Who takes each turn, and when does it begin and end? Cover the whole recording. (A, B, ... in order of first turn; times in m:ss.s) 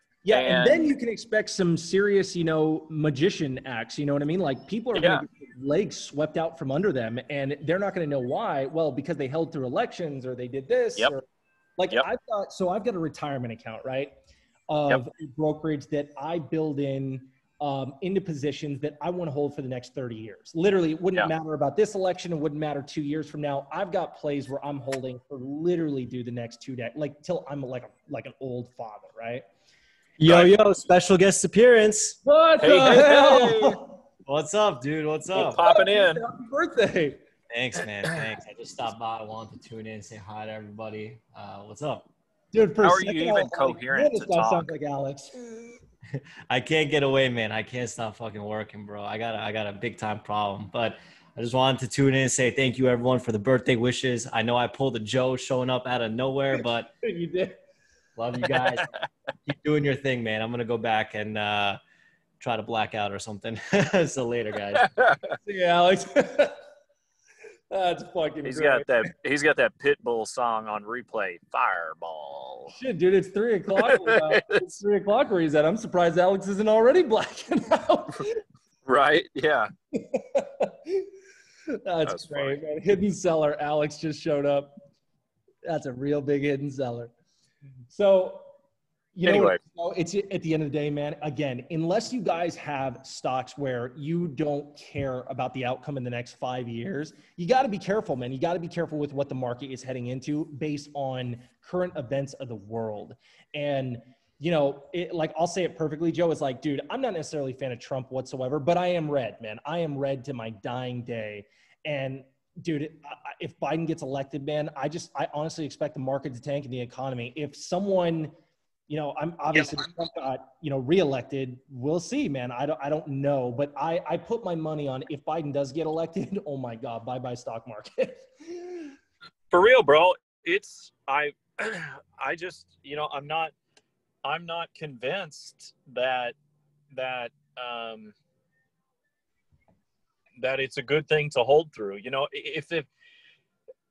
0:00.2-0:11.2 A
0:00.3-0:00.9 B
0:04.9-0:05.2 B
0:11.8-0:14.1 A
0:14.7-0:29.4 A
0:30.2-0:32.2 C
0:30.2-0:30.5 B
0:32.2-0:33.9 A
0:32.6-0:33.8 B
0:32.7-0:33.6 C
0:34.2-0:35.6 C
0:35.4-0:36.2 B
0:35.4-0:37.2 A
0:37.5-0:42.1 C
0:42.5-0:45.8 A
0:42.8-0:44.7 B
0:46.2-0:56.9 C
0:57.0-0:57.6 A
0:58.2-0:58.9 C
0:59.4-1:01.8 C
1:02.4-1:04.9 C
1:04.7-1:05.3 B
1:05.4-1:06.6 A
1:07.7-1:09.1 A
1:08.4-1:12.7 B
1:12.7-1:18.4 A
1:13.8-1:14.4 B
1:18.8-1:19.7 B
1:19.9-1:21.1 A
1:21.8-1:24.7 A
1:22.0-1:22.6 B
1:25.6-1:27.1 A
1:27.9-1:28.5 A
1:29.2-1:58.3 A
1:29.2-1:29.6 B
1:58.9-2:08.9 A
2:09.5-2:13.5 B
2:14.2-2:16.3 B
2:16.9-2:18.1 B
2:20.4-2:22.9 B